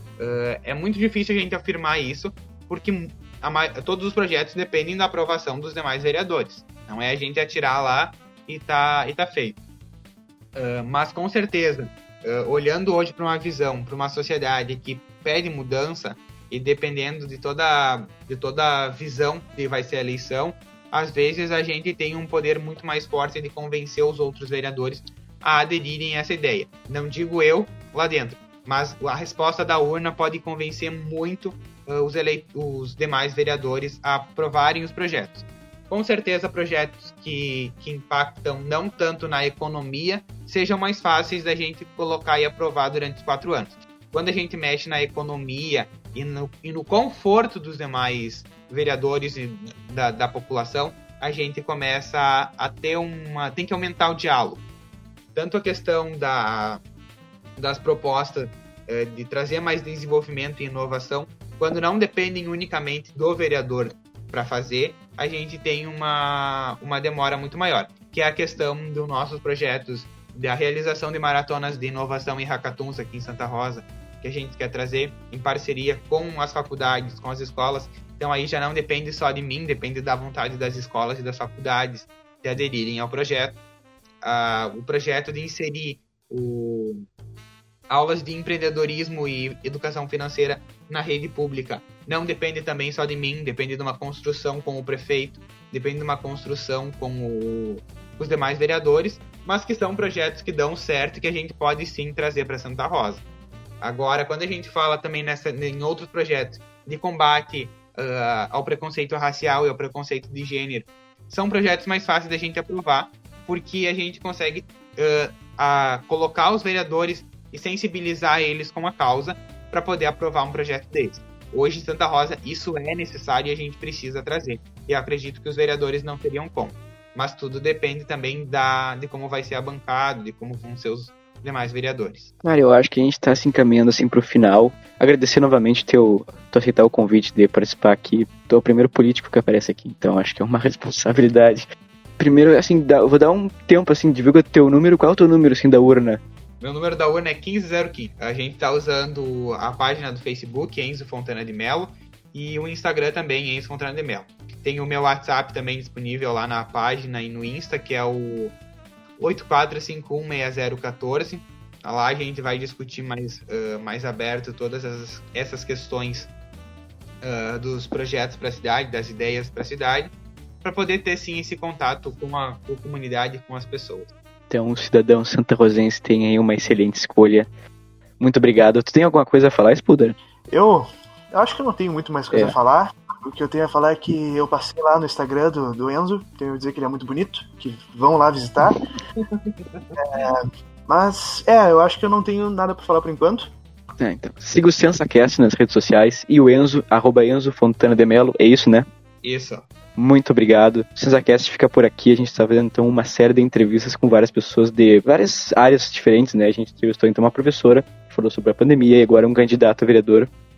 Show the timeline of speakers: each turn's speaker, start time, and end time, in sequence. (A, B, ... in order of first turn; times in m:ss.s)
0:00.2-0:09.6 A
0:10.6-0:54.6 A
0:55.4-0:56.8 A
0:57.6-1:23.6 A
1:24.2-1:27.1 A
1:27.9-1:43.2 A
1:43.8-2:12.3 A
2:12.4-2:21.6 B
2:22.2-2:26.2 B
2:26.6-2:38.6 A
2:39.2-2:46.3 A
2:47.2-2:54.1 A
2:54.5-2:57.5 B
2:58.2-3:00.2 B
3:00.5-3:08.8 C
3:02.3-3:02.6 B
3:09.2-3:10.3 A
3:10.0-3:13.5 C
3:14.0-3:18.9 B
3:19.2-3:19.7 A
3:20.0-3:30.3 B